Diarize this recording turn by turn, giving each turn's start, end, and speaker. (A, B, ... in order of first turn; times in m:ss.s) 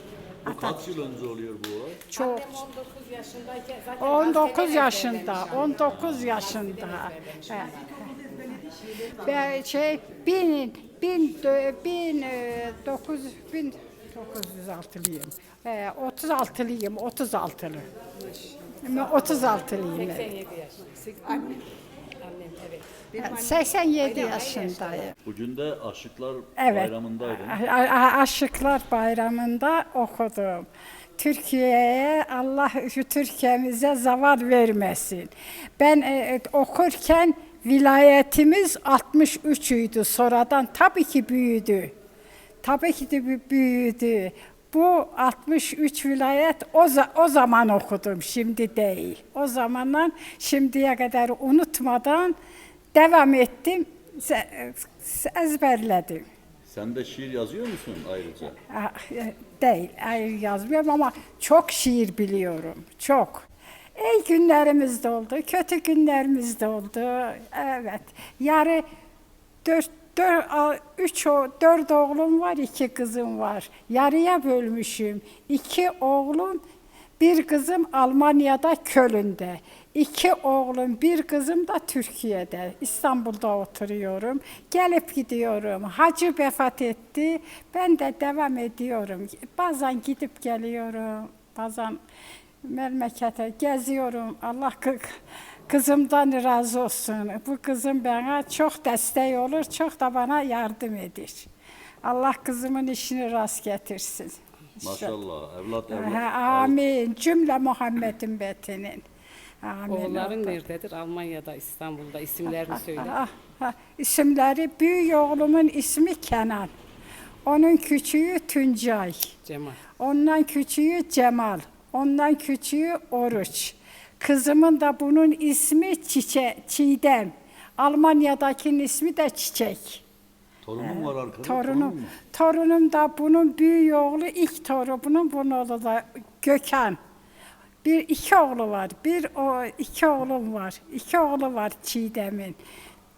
0:00.4-0:01.0 A
0:00.4-0:02.0 B
0:02.1-0:02.6 A
0:02.1-0:08.0 C
0:04.0-0:07.7 A
0:08.6-0:17.9 A
0:18.2-0:21.6 C
0:18.8-0:20.3 A
0:22.2-0:23.4 C
0:23.2-0:25.1 A
0:24.0-0:25.1 C
0:25.2-0:27.6 B
0:26.6-0:30.7 A
0:31.2-0:41.9 A
0:42.6-0:52.4 A
0:52.9-0:56.3 A
0:56.7-0:58.6 B
0:58.7-1:08.8 A
1:09.6-1:16.6 A
1:17.2-1:32.0 A
1:32.6-1:35.1 A
1:35.7-1:41.5 A
1:42.0-1:45.2 A
1:44.8-1:46.8 B
1:45.9-1:49.0 A
1:49.6-1:50.6 A
1:49.9-1:53.2 C
1:52.7-1:56.7 A
1:57.5-1:59.3 A
1:59.4-1:59.8 C
2:00.0-2:10.0 A
2:10.6-2:12.2 B
2:10.8-2:17.0 A
2:17.8-2:22.6 A